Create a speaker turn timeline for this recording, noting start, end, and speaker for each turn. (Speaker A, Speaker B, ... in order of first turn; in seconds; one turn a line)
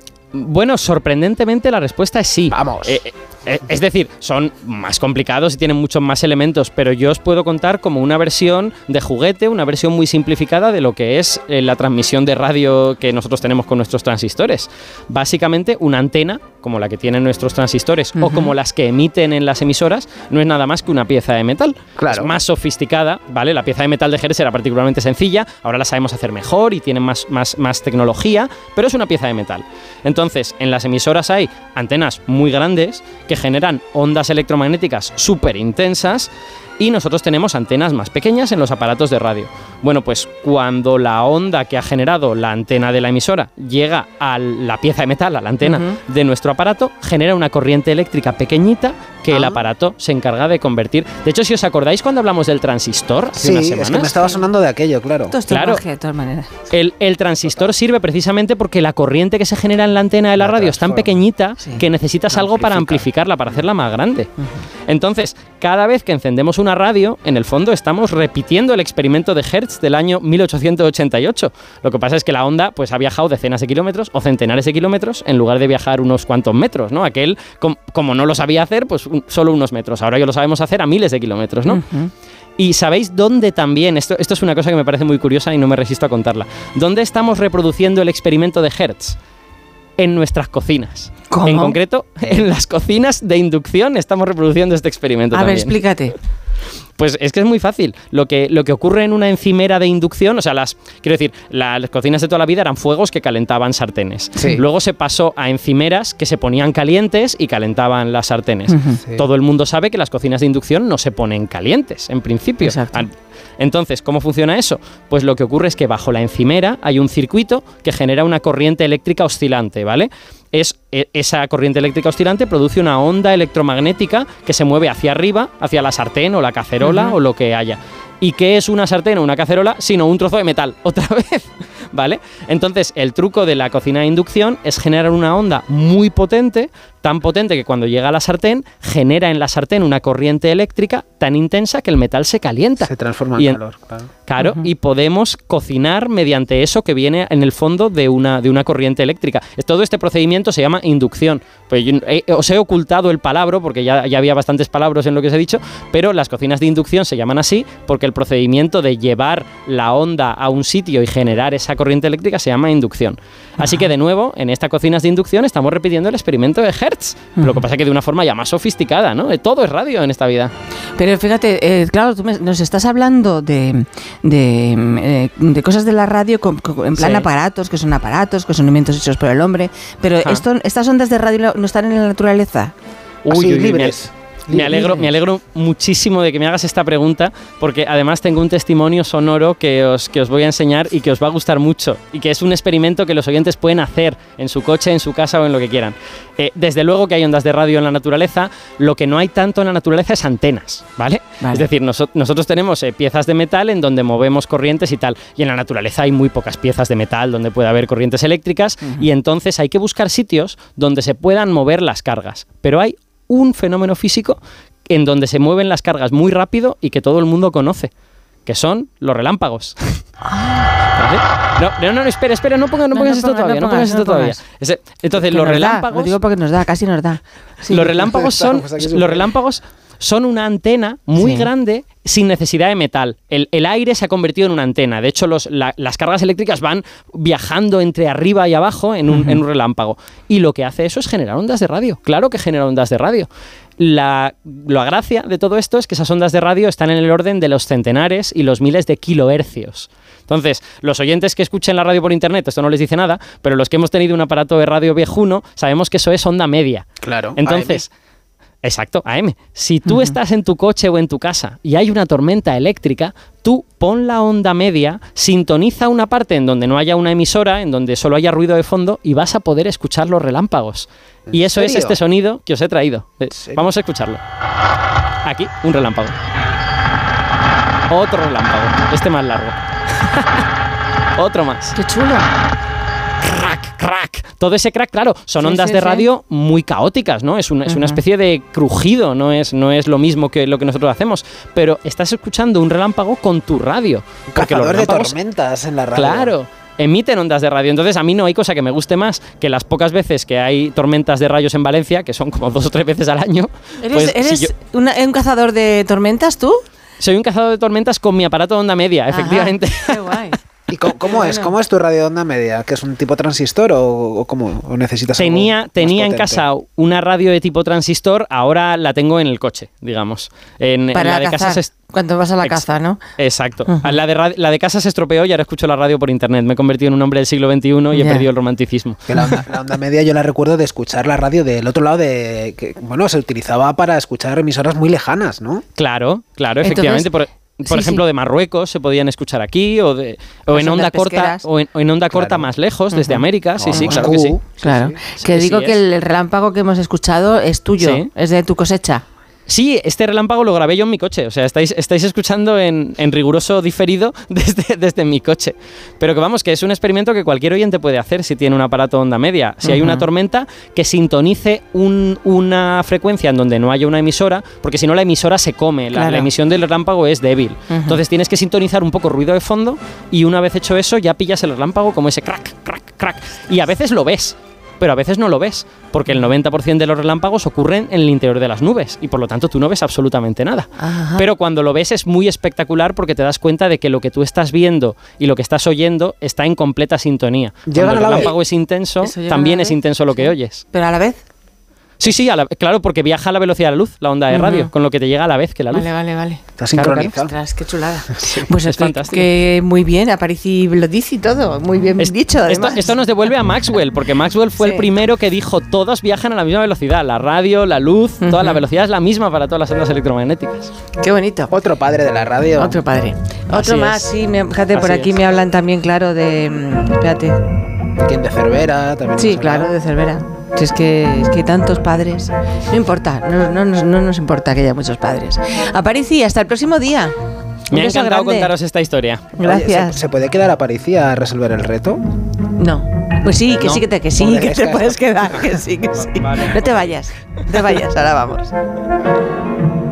Speaker A: 0.3-54.2
Speaker B: 2.5-3.0
Speaker C: 18.2-18.5
Speaker B: 22.0-22.3
Speaker C: 45.6-45.9
Speaker B: 53.4-55.3
Speaker C: 55.3-56.5
Speaker A: 55.5-55.8
Speaker A: 56.7-64.3
Speaker B: 60.4-61.2
Speaker B: 62.3-63.0
Speaker A: 64.9-81.8
Speaker C: 81.7-82.1
Speaker A: 82.6-89.2
Speaker A: 90.0-95.7
Speaker C: 91.3-91.8
Speaker C: 95.3-96.1
Speaker A: 97.0-143.6
Speaker C: 108.7-109.0
Speaker C: 112.6-113.0
Speaker C: 126.8-127.1
Speaker B: 142.8-144.1
Speaker A: 144.3-170.5
Speaker C: 171.0-182.7
Speaker A: 176.9-177.2
Speaker A: 183.2-214.4
Speaker B: 183.3-185.0
Speaker C: 201.4-201.7
Speaker A: 214.9-217.9
Speaker A: 218.4-220.1
Speaker C: 220.2-220.7
Speaker A: 220.9-226.2
Speaker C: 222.9-224.4
Speaker C: 225.1-227.8
Speaker A: 227.7-257.9
Speaker B: 227.7-229.3
Speaker C: 231.2-231.5
Speaker B: 257.0-257.8
Speaker A: 258.6-274.2
Speaker B: 271.3-272.0
Speaker B: 273.3-273.6
Speaker A: 275.2-276.1
Speaker A: 277.9-280.4
Speaker A: 281.2-281.7
Speaker C: 281.8-282.3
Speaker A: 283.2-295.2
Speaker C: 285.4-286.0
Speaker C: 287.7-288.0
Speaker B: 294.3-296.3
Speaker A: 295.9-304.5
Speaker C: 303.8-306.6
Speaker A: 307.0-310.0
Speaker C: 309.1-310.4
Speaker B: 310.7-316.4
Speaker C: 311.1-311.5
Speaker A: 315.1-321.7
Speaker C: 320.9-323.0
Speaker A: 322.4-329.0
Speaker C: 327.9-328.3
Speaker B: 329.1-335.6
Speaker A: 335.8-344.4
Speaker C: 336.6-337.1
Speaker C: 337.7-338.0
Speaker C: 340.5-341.4
Speaker B: 342.1-342.5
Speaker C: 342.9-344.1
Speaker B: 343.6-345.0
Speaker C: 344.6-349.0
Speaker A: 345.2-345.8
Speaker A: 347.8-348.1
Speaker A: 349.5-390.6
Speaker C: 359.6-360.1
Speaker C: 365.9-366.3
Speaker C: 367.7-368.0
Speaker C: 380.8-381.2
Speaker B: 387.7-388.3
Speaker C: 389.0-391.2
Speaker A: 392.0-395.9
Speaker C: 394.3-394.7
Speaker C: 395.7-396.4
Speaker B: 396.6-397.3
Speaker A: 396.7-397.1
Speaker C: 397.2-402.9
Speaker A: 398.2-399.2
Speaker A: 402.0-410.7
Speaker C: 404.6-404.8
Speaker C: 408.2-408.6
Speaker C: 411.0-411.5
Speaker B: 411.5-412.8
Speaker C: 412.6-417.4
Speaker A: 413.5-414.1
Speaker A: 414.7-415.1
Speaker B: 418.0-419.7
Speaker C: 419.2-427.1
Speaker C: 427.7-428.5
Speaker A: 427.7-429.3
Speaker B: 429.4-432.0
Speaker C: 429.4-430.0
Speaker C: 432.6-438.5
Speaker B: 433.3-435.5
Speaker A: 436.2-436.5